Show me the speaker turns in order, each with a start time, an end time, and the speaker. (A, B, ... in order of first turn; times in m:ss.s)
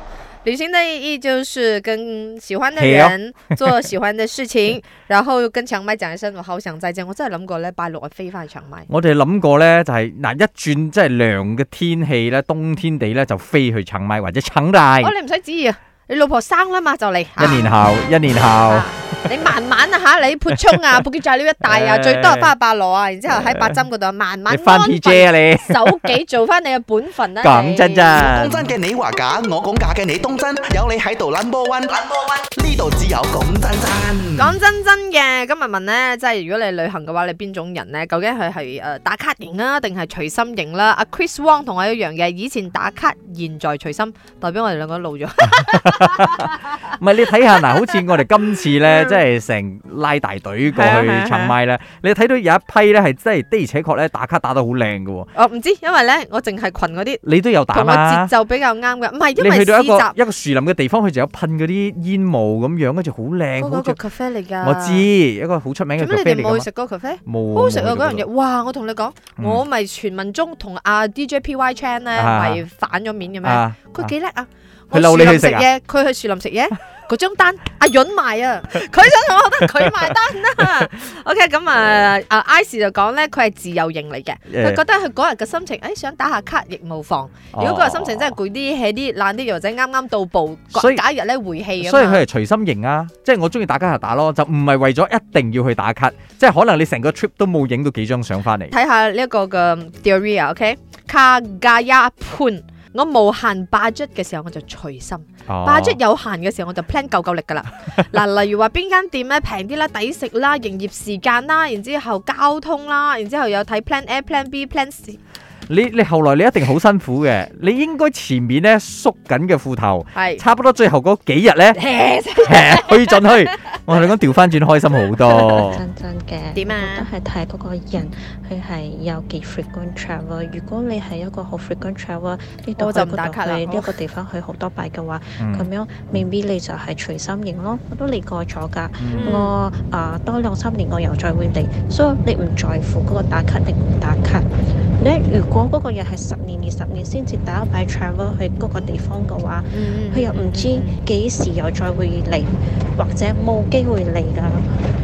0:00.4-0:08.9 A
0:02.8-0:03.1 B
0:08.9-0:15.1 B
0:15.0-0:17.7 A
0:17.4-0:18.9 B
0:18.7-0:28.2 A
0:21.6-0:22.5 B
0:24.5-0:26.2 B
0:27.4-0:28.7 B
0:28.1-0:34.6 C
0:34.4-0:46.6 A
0:45.5-0:55.3 B
0:48.8-0:49.2 A
0:50.7-0:51.6 A
0:55.3-1:00.1 A
0:57.2-0:58.3 B
0:59.4-1:04.0 B
1:03.6-1:05.1 A
1:04.6-1:06.7 B
1:06.0-1:32.2 A
1:07.3-1:08.2 B
1:09.4-1:09.6 B
1:12.2-1:12.6 B
1:13.4-1:14.1 B
1:14.9-1:15.7 B
1:24.5-1:24.8 B
1:27.5-1:28.3 B
1:30.7-1:31.0 B
1:31.8-1:38.7 B
1:38.7-1:55.2 A
1:45.5-1:46.0 B
1:55.7-2:01.8 B
2:00.1-2:00.4 A
2:01.8-2:03.5 A
2:02.4-2:05.8 B
2:05.4-2:24.5 D
2:06.6-2:07.1 A
2:12.8-2:14.0 A
2:15.4-2:15.7 B
2:19.0-2:19.5 B
2:19.1-2:19.5 A
2:25.0-2:34.8 D
2:29.7-2:31.0 A